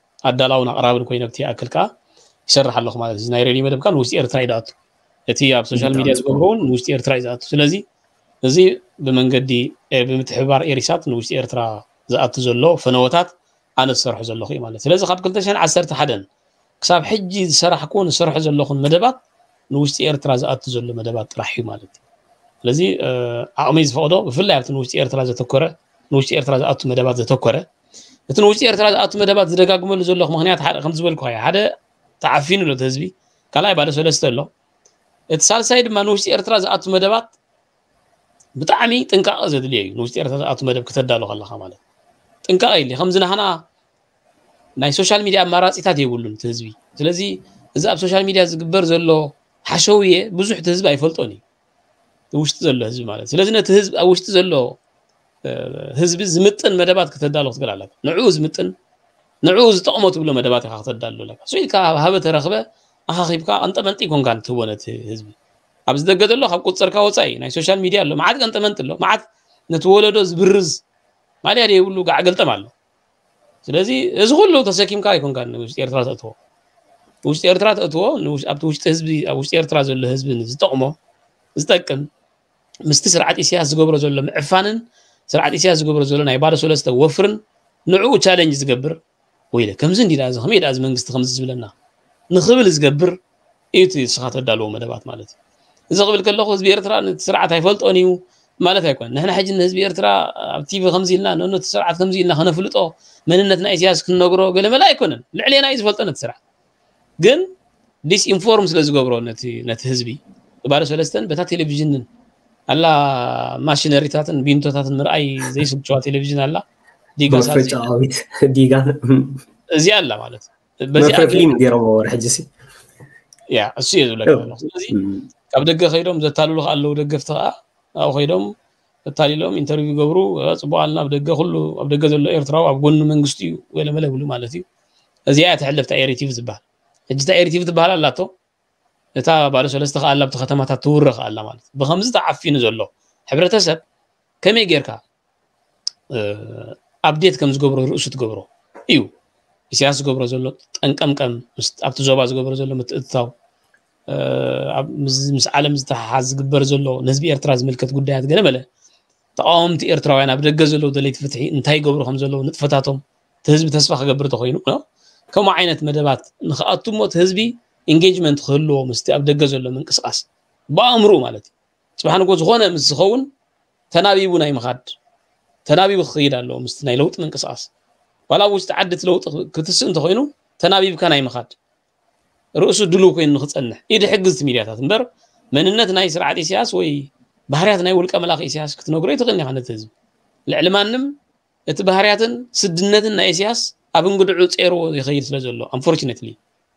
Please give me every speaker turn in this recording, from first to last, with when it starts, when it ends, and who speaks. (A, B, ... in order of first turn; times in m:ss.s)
0:00.2-0:01.9 A
0:02.5-0:04.8 A
0:05.3-0:07.8 A
0:05.7-0:06.4 B
0:08.4-0:16.2 A
0:16.8-0:19.2 A
0:19.7-0:21.9 A
0:22.6-0:27.6 A
0:28.3-0:31.7 A
0:32.2-0:34.5 A
0:35.3-0:37.3 A
0:38.6-0:41.8 A
0:42.4-0:43.6 A
0:44.8-0:51.4 A
0:52.3-0:54.8 A
0:55.4-0:58.7 A
0:59.4-1:05.3 A
1:05.9-1:10.8 A
1:11.4-1:12.7 A
1:13.6-1:16.3 A
1:17.2-1:20.9 A
1:21.6-1:22.1 A
1:22.9-1:29.0 A
1:29.5-1:31.7 A
1:32.3-1:33.2 A
1:33.7-1:35.3 A
1:35.9-1:46.4 A
1:47.2-1:47.5 A
1:48.1-1:52.1 A
1:52.7-1:56.6 A
1:57.2-1:57.8 A
1:57.3-1:59.4 B
1:59.8-2:01.5 A
2:01.0-2:02.5 B
2:03.5-2:05.0 A
2:04.3-2:05.2 B
2:05.5-2:08.5 A
2:09.1-2:14.6 A
2:15.3-2:18.3 A
2:19.2-2:23.8 A
2:24.4-2:25.0 A
2:26.1-2:29.1 A
2:29.7-2:33.3 A
2:34.1-2:38.6 A
2:39.4-2:53.3 A
2:53.9-2:54.9 A
2:55.6-2:57.7 A
2:58.3-3:01.5 A
3:02.6-3:09.9 A
3:10.5-3:11.2 A
3:11.7-3:16.4 A